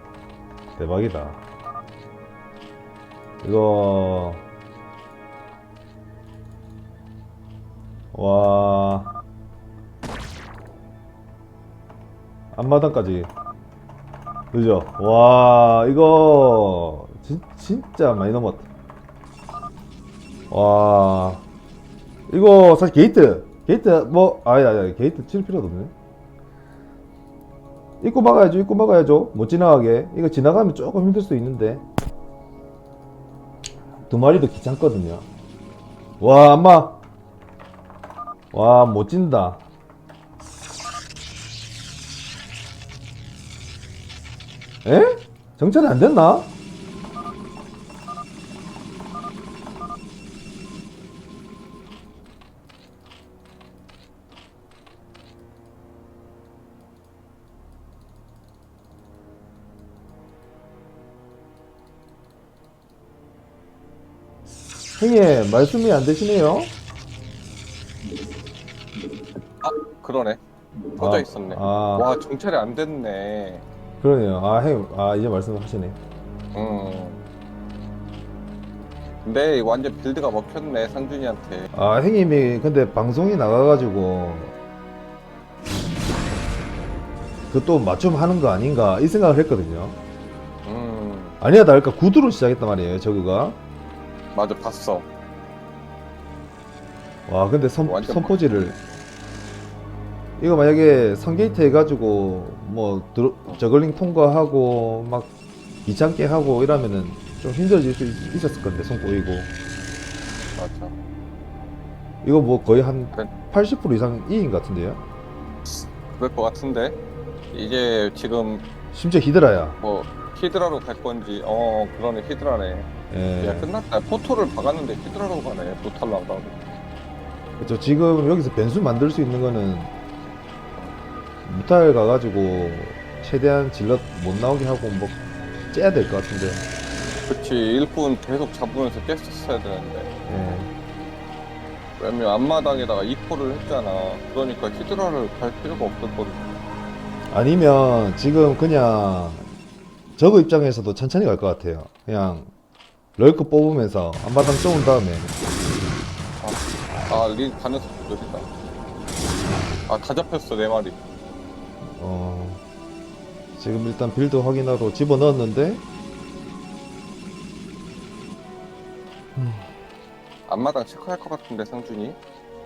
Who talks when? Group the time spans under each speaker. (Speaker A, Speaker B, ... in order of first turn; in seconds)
Speaker A: 0.8-1.4, 3.4-4.4, 8.1-9.1, 12.5-13.3, 14.5-18.7, 20.5-21.4, 22.3-25.9, 28.0-31.8, 34.1-35.2, 36.2-37.0, 38.5-39.6, 44.8-46.5, 65.0-66.7, 71.0-72.1, 74.0-76.0, 81.7-84.5, 87.5-90.0, 91.4-93.6, 97.3-98.8, 100.4-105.3, 105.8-109.5, 112.2-115.0, 118.9-119.8, 123.1-123.7, 127.6-129.9, 131.4-135.2, 135.7-136.6, 140.2-140.7, 147.3-149.5, 150.2-152.5, 153.2-155.3, 161.9-162.6, 163.6-165.8, 169.3-169.7
Speaker B: 69.6-70.4, 70.9-73.6, 76.5-77.2, 79.2-81.7, 90.6-91.4, 94.3-95.1, 97.8-98.4, 110.5-110.9, 115.7-117.0, 117.5-118.6, 119.8-122.9, 123.4-126.6, 137.3-140.1, 142.0-146.4, 156.4-158.5, 159.9-161.0, 170.5-172.2